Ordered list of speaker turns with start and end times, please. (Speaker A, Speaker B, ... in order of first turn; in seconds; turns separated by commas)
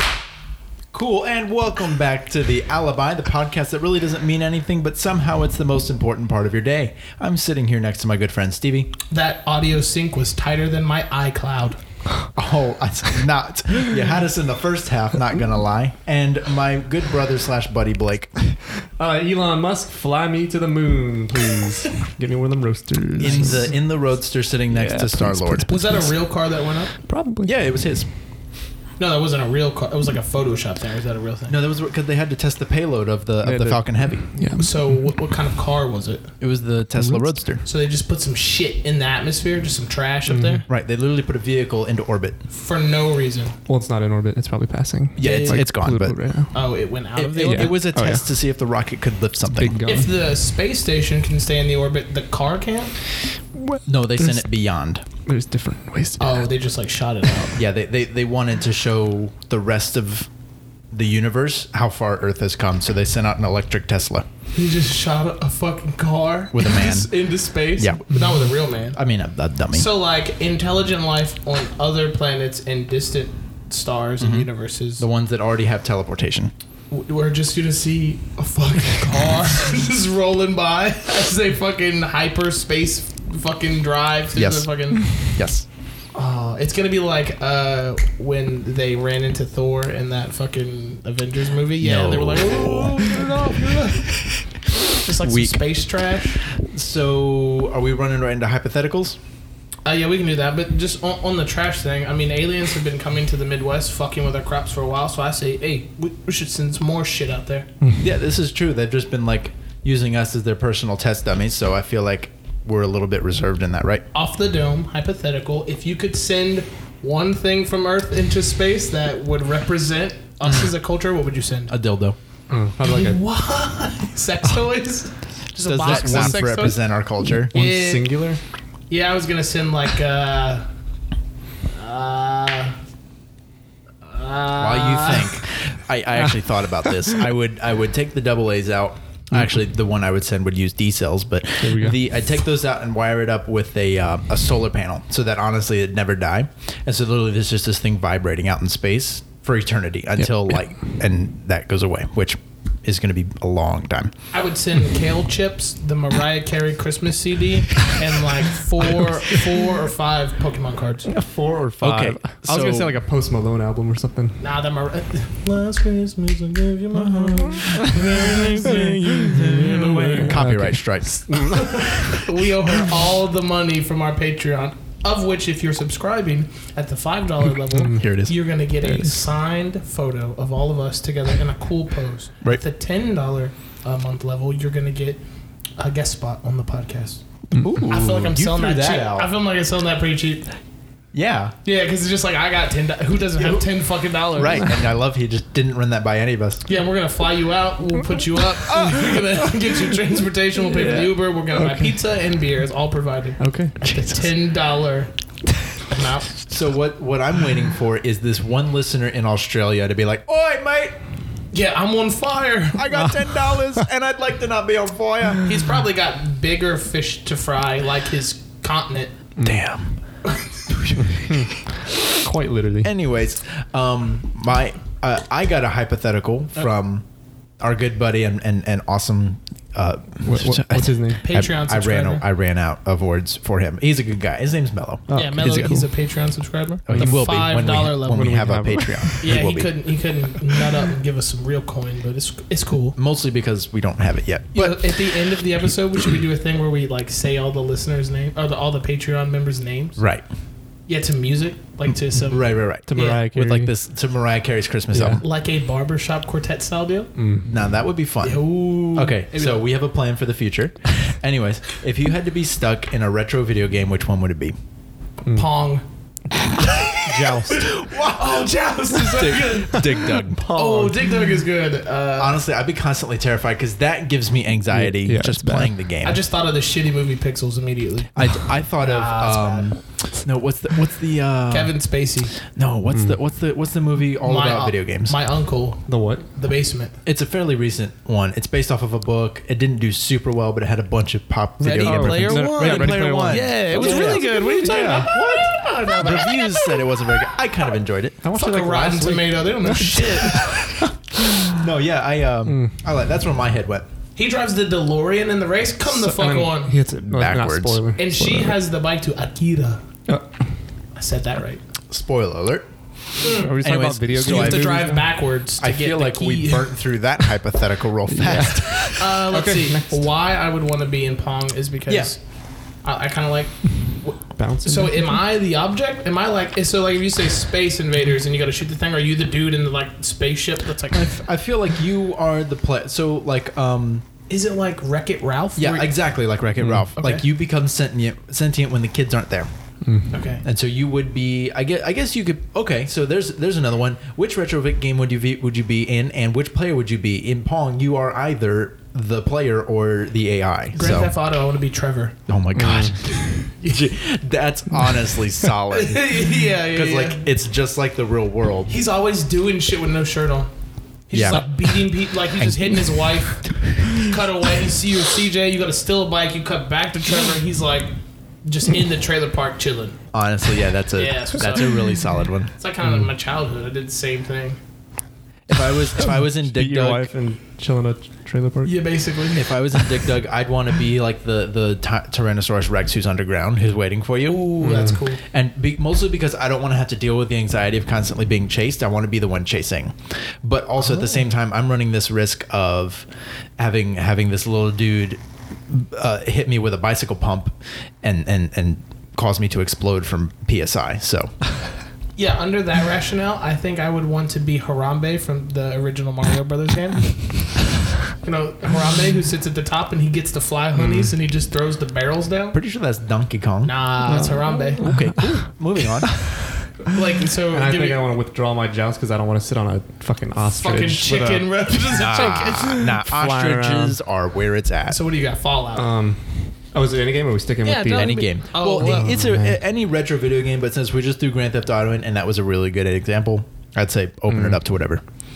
Speaker A: 0.9-8.9, Speaker B: 9.1-11.8, Speaker A: 12.4-18.6, Speaker C: 19.0-23.9, Speaker A: 23.2-25.8, Speaker C: 24.7-27.6, Speaker B: 25.7-27.0, Speaker A: 27.4-28.1, Speaker B: 29.0-31.6, Speaker A: 31.5-34.5, Speaker C: 33.4-35.2, Speaker B: 34.6-36.3, Speaker A: 36.4-37.6, Speaker C: 37.0-37.3, Speaker B: 37.6-40.6, Speaker C: 40.3-40.7, Speaker A: 40.7-42.4, Speaker B: 42.5-43.6, Speaker C: 43.7-46.5, Speaker A: 45.2-46.2, Speaker B: 45.2-45.7, Speaker B: 46.5-47.9, Speaker A: 47.1-49.8, Speaker C: 47.4-48.3, Speaker C: 49.5-50.1, Speaker B: 49.9-53.0, Speaker C: 53.6-54.5, Speaker A: 53.9-55.0, Speaker C: 55.3-56.5, Speaker B: 56.2-57.6, Speaker A: 57.5-60.3, Speaker A: 60.9-64.3, Speaker B: 64.5-69.0, Speaker A: 66.5-67.1, Speaker A: 67.8-68.0, Speaker C: 68.1-68.4, Speaker A: 68.9-69.9, Speaker B: 69.7-75.0, Speaker A: 74.2-76.5, Speaker B: 76.9-85.0, Speaker A: 84.3-85.7, Speaker B: 86.2-94.2, Speaker A: 91.8-94.1, Speaker B: 95.0-96.4, Speaker A: 95.1-95.7, Speaker A: 96.5-99.2, Speaker B: 99.8-107.7, Speaker A: 108.0-114.0, Speaker B: 114.1-121.7, Speaker A: 120.4-120.7, Speaker A: 121.7-122.2, Speaker C: 122.5-123.2, Speaker B: 122.8-126.8, Speaker A: 125.7-127.5, Speaker C: 125.8-126.8, Speaker C: 127.3-128.4, Speaker B: 127.5-128.1, Speaker B: 128.9-130.7, Speaker B: 131.7-132.8, Speaker B: 134.0-135.4, Speaker A: 134.6-154.1, Speaker C: 141.6-142.0, Speaker C: 150.2-150.5, Speaker B: 154.3-161.1, Speaker C: 161.1-164.4, Speaker A: 161.8-162.9, Speaker B: 164.4-170.4, Speaker A: 166.9-168.5, Speaker C: 167.7-172.2, Speaker A: 169.3-172.2, Speaker B: 171.4-185.2, Speaker C: 177.7-178.1, Speaker A: 177.8-178.3, Speaker C: 178.8-179.2, Speaker B: 185.8-187.2, Speaker A: 187.5-189.3, Speaker B: 187.9-190.5, Speaker A: 191.1-191.5, Speaker B: 191.7-194.7, Speaker A: 194.3-196.6, Speaker B: 196.7-205.1, Speaker A: 198.7-199.3, Speaker A: 200.7-201.1, Speaker C: 201.5-202.0, Speaker C: 203.4-203.9, Speaker A: 203.8-204.1, Speaker B: 205.9-206.3, Speaker A: 206.5-211.0, Speaker B: 211.5-213.1, Speaker A: 212.7-215.4, Speaker C: 212.9-213.5, Speaker B: 215.5-219.1, Speaker C: 219.4-219.7, Speaker A: 219.4-220.0, Speaker B: 220.2-220.5, Speaker A: 220.7-221.6, Speaker C: 221.0-222.9, Speaker A: 222.8-227.1, Speaker A: 227.6-235.7, Speaker C: 230.2-231.2, Speaker B: 231.2-232.2, Speaker C: 235.1-235.9, Speaker B: 235.1-238.3, Speaker A: 236.9-239.7, Speaker C: 236.9-239.3, Speaker B: 239.2-243.0, Speaker A: 243.0-245.2, Speaker B: 244.5-250.0, Speaker A: 250.0-250.2, Speaker B: 250.9-253.2, Speaker A: 252.3-255.2, Speaker C: 252.8-253.7, Speaker C: 254.9-255.2, Speaker B: 255.2-257.1, Speaker C: 257.2-257.5, Speaker A: 257.4-264.6, Speaker B: 258.2-259.7, Speaker B: 265.3-265.8, Speaker B: 266.6-269.9, Speaker A: 267.0-270.4, Speaker C: 269.8-271.1, Speaker B: 270.5-272.4, Speaker A: 272.2-276.2, Speaker C: 274.7-275.8, Speaker B: 276.0-279.7, Speaker A: 278.1-281.7, Speaker B: 281.5-282.4, Speaker A: 282.5-285.1, Speaker C: 282.9-283.2, Speaker B: 284.2-286.9, Speaker C: 285.9-286.3, Speaker A: 287.1-298.3, Speaker B: 291.6-296.8, Speaker C: 291.8-295.1, Speaker C: 298.2-301.5, Speaker B: 298.3-300.6, Speaker A: 301.4-303.9, Speaker C: 302.5-302.9, Speaker B: 304.2-306.8, Speaker C: 305.8-308.6, Speaker A: 307.1-307.8, Speaker B: 308.0-309.8, Speaker C: 310.1-310.5, Speaker B: 310.9-311.6, Speaker A: 311.9-312.7, Speaker B: 313.2-313.6, Speaker C: 313.4-315.1, Speaker A: 313.6-314.7, Speaker B: 314.2-316.7, Speaker A: 315.6-319.1, Speaker C: 318.1-320.1, Speaker B: 318.9-322.2, Speaker B: 322.8-331.2, Speaker C: 324.4-325.2, Speaker A: 330.9-334.1, Speaker B: 334.3-336.0, Speaker A: 335.6-339.5, Speaker C: 336.6-336.9, Speaker B: 337.0-337.2, Speaker C: 339.9-340.1, Speaker B: 340.1-340.4, Speaker A: 340.4-351.1, Speaker B: 350.8-352.2, Speaker A: 352.3-358.7, Speaker C: 352.6-353.3, Speaker B: 353.5-353.7, Speaker C: 354.8-355.1, Speaker B: 355.7-357.2, Speaker B: 358.7-360.5, Speaker B: 361.1-367.9, Speaker A: 361.1-361.7, Speaker A: 362.3-363.7, Speaker B: 368.4-370.0, Speaker A: 370.1-372.5, Speaker B: 371.0-374.6, Speaker C: 372.8-373.1, Speaker A: 375.5-377.1, Speaker C: 376.0-378.8, Speaker B: 378.6-379.9, Speaker A: 379.4-393.1, Speaker B: 384.3-385.2, Speaker C: 384.6-385.0, Speaker B: 390.8-391.1, Speaker A: 393.6-401.4, Speaker B: 402.2-407.6, Speaker B: 408.2-412.6, Speaker C: 410.8-411.1, Speaker A: 412.5-414.0, Speaker B: 413.6-414.9, Speaker C: 414.0-416.4, Speaker A: 414.8-416.4, Speaker B: 416.9-418.0, Speaker C: 417.5-424.0, Speaker B: 420.5-422.9, Speaker A: 421.9-425.0, Speaker B: 424.9-425.9, Speaker C: 425.8-429.6, Speaker B: 427.6-429.2, Speaker A: 427.9-435.0, Speaker C: 434.3-434.6